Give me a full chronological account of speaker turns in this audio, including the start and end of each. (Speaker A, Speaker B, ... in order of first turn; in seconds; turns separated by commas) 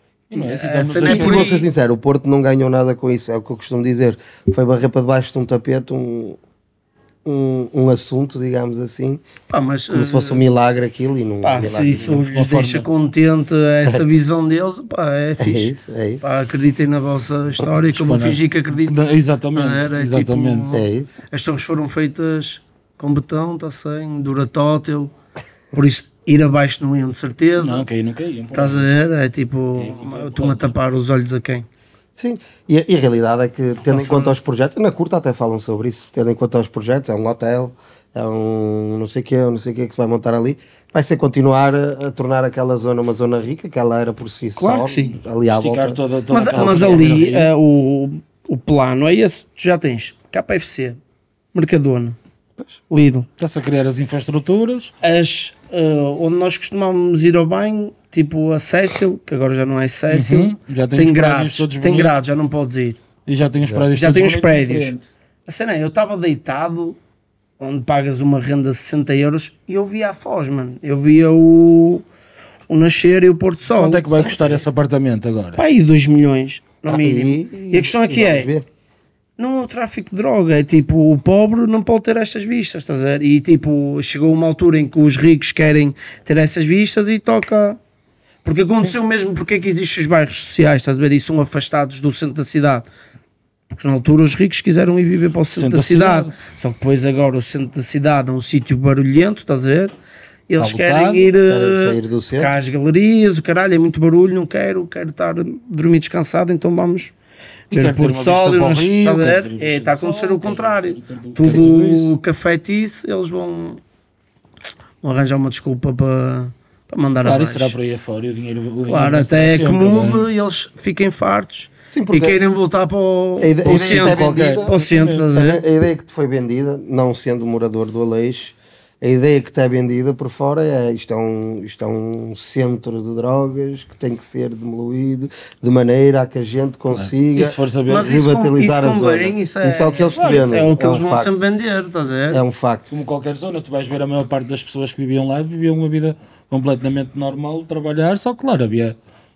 Speaker A: 0.3-1.5, Speaker B: 0.4-1.7, Speaker C: 1.0-6.4, Speaker C: 7.2-9.2, Speaker B: 9.5-10.4, Speaker C: 9.9-12.2, Speaker B: 11.4-19.0, Speaker A: 12.0-12.9, Speaker C: 13.7-14.2, Speaker C: 15.4-16.2, Speaker A: 17.9-20.7, Speaker B: 19.5-25.1, Speaker C: 20.7-21.1, Speaker B: 25.7-27.9, Speaker A: 27.6-28.9, Speaker B: 28.5-31.6, Speaker A: 29.8-30.7, Speaker C: 32.2-46.0, Speaker B: 33.9-34.3, Speaker B: 44.6-45.2, Speaker A: 45.5-47.5, Speaker B: 46.3-51.0, Speaker C: 46.5-47.2, Speaker B: 51.5-52.2, Speaker B: 52.9-53.3, Speaker A: 53.4-54.9, Speaker B: 55.0-63.0, Speaker A: 60.1-62.2, Speaker A: 63.3-65.1, Speaker C: 63.6-63.9, Speaker B: 63.9-64.9, Speaker B: 65.5-67.0, Speaker B: 67.6-72.0, Speaker B: 72.7-74.3, Speaker A: 73.7-75.6, Speaker B: 75.6-78.5, Speaker C: 76.9-78.7, Speaker B: 79.4-87.8, Speaker B: 88.5-92.9, Speaker B: 93.7-99.9, Speaker A: 95.5-96.3, Speaker B: 100.5-107.1, Speaker A: 100.6-101.3, Speaker C: 101.5-102.5, Speaker A: 107.7-112.1, Speaker B: 107.7-113.8, Speaker B: 115.0-117.8, Speaker A: 117.2-120.2, Speaker B: 118.9-125.6, Speaker C: 121.9-122.4, Speaker C: 123.4-141.4, Speaker A: 123.7-125.3, Speaker A: 136.9-138.2, Speaker B: 137.9-142.4, Speaker C: 142.3-142.9, Speaker A: 142.9-149.0